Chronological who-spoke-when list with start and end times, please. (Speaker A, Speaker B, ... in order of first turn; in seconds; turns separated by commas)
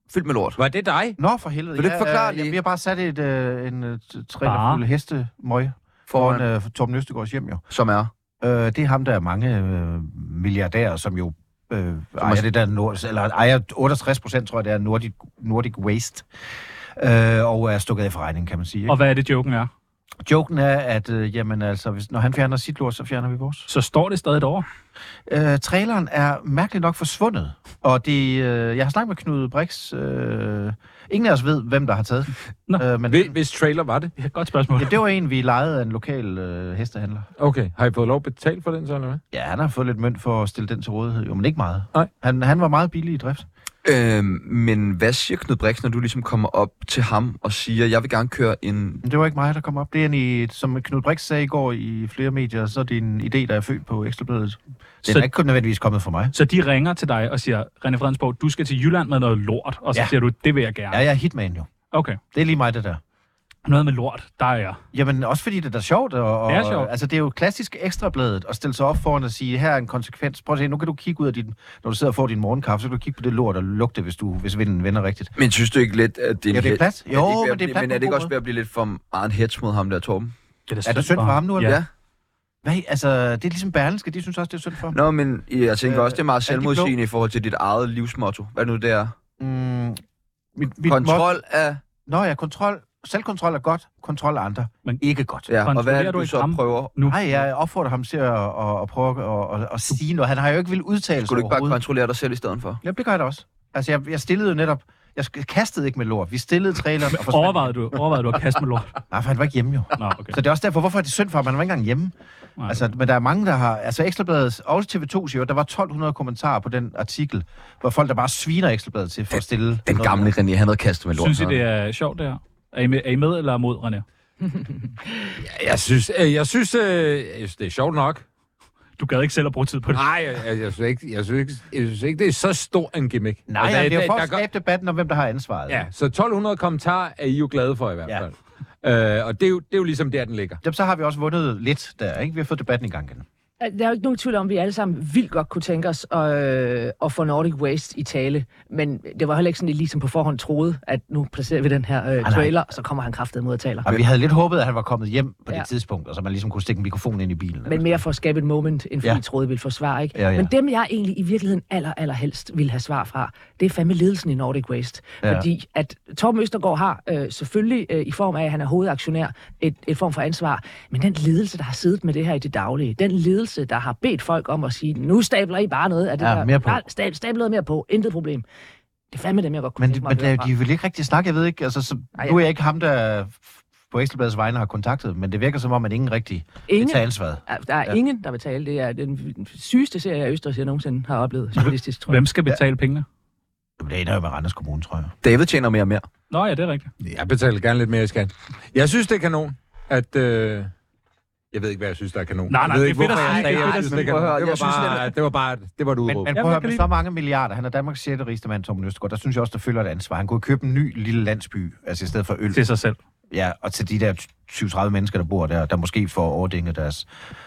Speaker A: 0.1-0.6, Speaker B: 0.6-1.2, Speaker C: 1.2-7.6, Speaker A: 1.8-2.6, Speaker D: 4.4-4.8, Speaker A: 6.1-6.5, Speaker A: 7.7-8.1, Speaker C: 8.4-16.3, Speaker A: 12.2-12.4, Speaker C: 17.0-19.0, Speaker D: 18.9-19.7, Speaker C: 20.2-23.7, Speaker D: 23.7-24.7, Speaker C: 25.3-33.4, Speaker B: 33.1-34.1, Speaker D: 34.2-35.0, Speaker C: 34.8-37.3, Speaker B: 37.4-39.2, Speaker C: 39.3-43.5, Speaker A: 43.9-49.0, Speaker C: 49.0-56.3, Speaker D: 56.3-61.0, Speaker C: 60.9-61.7, Speaker D: 61.9-62.2, Speaker C: 62.3-63.0, Speaker D: 63.7-64.8, Speaker C: 64.9-75.3, Speaker D: 66.5-66.9, Speaker A: 75.4-80.3, Speaker C: 76.5-78.3, Speaker D: 80.7-81.8, Speaker C: 80.8-81.8, Speaker A: 81.6-81.9, Speaker C: 82.6-85.0, Speaker A: 84.9-89.1, Speaker C: 85.8-86.9, Speaker C: 89.4-90.0, Speaker C: 90.5-91.3, Speaker A: 90.9-91.8, Speaker C: 92.1-95.5, Speaker A: 95.5-96.9, Speaker D: 95.6-97.2, Speaker C: 97.1-101.8, Speaker A: 101.3-102.8, Speaker C: 102.8-107.8, Speaker D: 107.1-109.0, Speaker C: 109.1-112.1, Speaker D: 110.0-110.4, Speaker C: 112.7-120.3, Speaker A: 119.9-121.6, Speaker D: 121.2-124.0, Speaker B: 125.4-128.2, Speaker D: 129.0-130.0, Speaker B: 129.9-134.4, Speaker C: 133.5-135.9, Speaker B: 135.7-140.6, Speaker C: 140.6-143.3, Speaker E: 143.6-153.9, Speaker C: 152.2-152.6, Speaker C: 153.8-158.0, Speaker E: 157.7-178.4, Speaker C: 160.1-160.5, Speaker C: 165.2-165.5, Speaker C: 176.2-176.8, Speaker E: 179.1-180.5, Speaker C: 179.8-188.0, Speaker E: 182.2-182.4, Speaker E: 186.7-192.2, Speaker D: 192.1-193.1, Speaker C: 193.8-195.1, Speaker A: 195.2-196.1, Speaker D: 196.3-196.9, Speaker B: 197.0-200.7, Speaker B: 201.5-206.3, Speaker D: 202.5-204.2, Speaker A: 203.1-205.1, Speaker C: 206.1-212.6, Speaker D: 206.3-206.9, Speaker D: 212.5-213.0, Speaker C: 213.3-217.1